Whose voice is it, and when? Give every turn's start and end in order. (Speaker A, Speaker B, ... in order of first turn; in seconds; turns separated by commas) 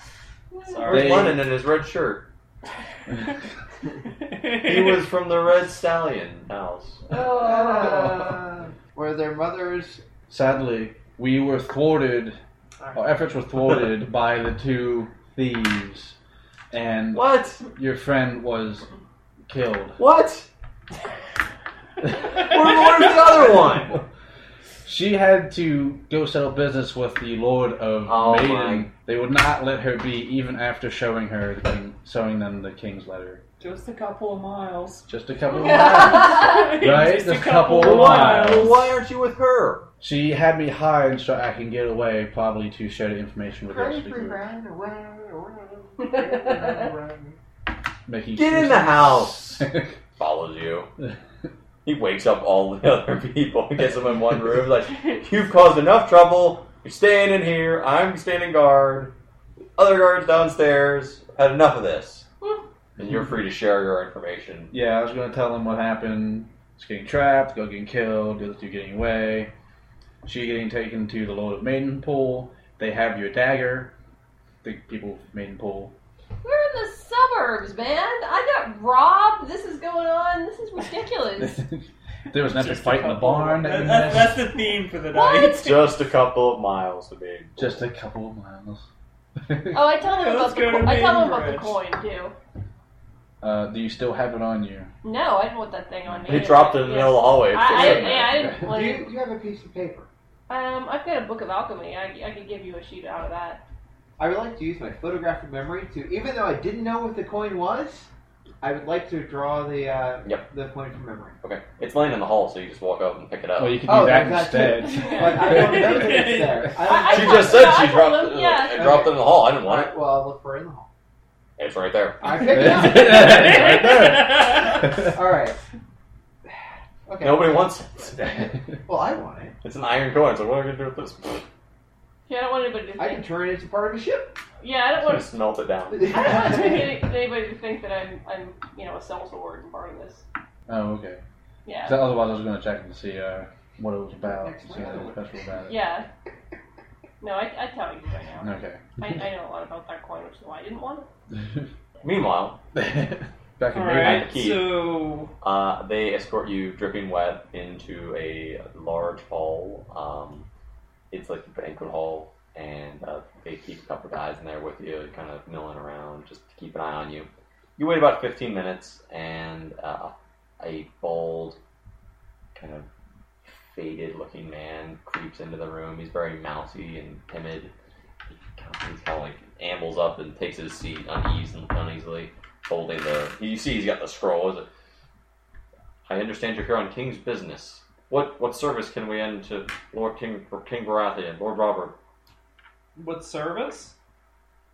Speaker A: 0.7-1.4, Speaker B: 0.8-2.3, Speaker C: 0.9-1.5, Speaker A: 4.2-5.1, Speaker B: 4.6-7.0, Speaker D: 7.1-8.4, Speaker E: 7.1-10.0, Speaker C: 10.3-12.4, Speaker C: 12.9-16.1, Speaker C: 16.7-18.9, Speaker B: 17.1-17.6, Speaker C: 19.5-20.0, Speaker B: 20.0-20.5, Speaker B: 22.3-24.0, Speaker C: 24.9-33.4, Speaker B: 28.1-28.9, Speaker A: 33.6-35.1, Speaker C: 35.1-38.9, Speaker D: 35.5-36.8, Speaker A: 35.8-38.8, Speaker B: 37.7-39.9, Speaker C: 40.0-44.4, Speaker E: 43.7-47.4, Speaker D: 46.0-46.8, Speaker C: 48.1-49.9, Speaker B: 48.4-50.9, Speaker B: 51.9-59.1, Speaker B: 59.8-62.3, Speaker B: 63.0-64.7, Speaker C: 64.7-69.5, Speaker C: 70.2-73.9, Speaker C: 74.6-75.9, Speaker D: 76.4-81.7, Speaker C: 81.4-84.4, Speaker A: 82.4-85.9, Speaker D: 85.1-85.7, Speaker B: 85.6-87.8, Speaker C: 87.6-88.9, Speaker C: 89.4-89.9, Speaker D: 89.7-92.3, Speaker A: 90.0-91.8, Speaker C: 93.4-94.9, Speaker D: 95.0-99.1, Speaker B: 96.3-98.5, Speaker C: 97.8-98.6, Speaker E: 97.8-100.1, Speaker D: 100.5-103.6, Speaker E: 104.2-108.1, Speaker E: 108.6-111.4, Speaker B: 111.4-114.0, Speaker C: 113.6-116.7, Speaker E: 113.8-117.9, Speaker D: 114.9-115.8, Speaker A: 115.2-116.7, Speaker D: 116.8-118.9, Speaker B: 116.9-120.0, Speaker E: 118.8-120.9, Speaker B: 121.6-122.4, Speaker E: 122.2-123.7, Speaker C: 122.5-125.1, Speaker A: 122.8-124.9, Speaker E: 125.0-125.6, Speaker E: 127.1-129.6, Speaker B: 127.2-128.5, Speaker B: 129.6-131.5, Speaker D: 132.3-133.2, Speaker E: 133.0-134.4, Speaker D: 134.6-135.3, Speaker B: 134.9-136.2, Speaker E: 135.9-137.0, Speaker D: 136.0-140.2, Speaker C: 140.7-141.2, Speaker D: 141.7-142.0, Speaker C: 141.8-145.9, Speaker E: 144.2-145.2, Speaker D: 145.7-146.1, Speaker D: 147.2-151.1, Speaker C: 148.4-148.9, Speaker B: 152.0-152.6, Speaker C: 152.7-154.3, Speaker A: 153.7-155.3, Speaker B: 154.0-154.8, Speaker B: 155.4-160.5, Speaker B: 161.1-171.6, Speaker B: 172.6-172.9, Speaker B: 173.7-177.7, Speaker B: 178.3-184.7, Speaker B: 186.1-191.9, Speaker A: 193.0-193.9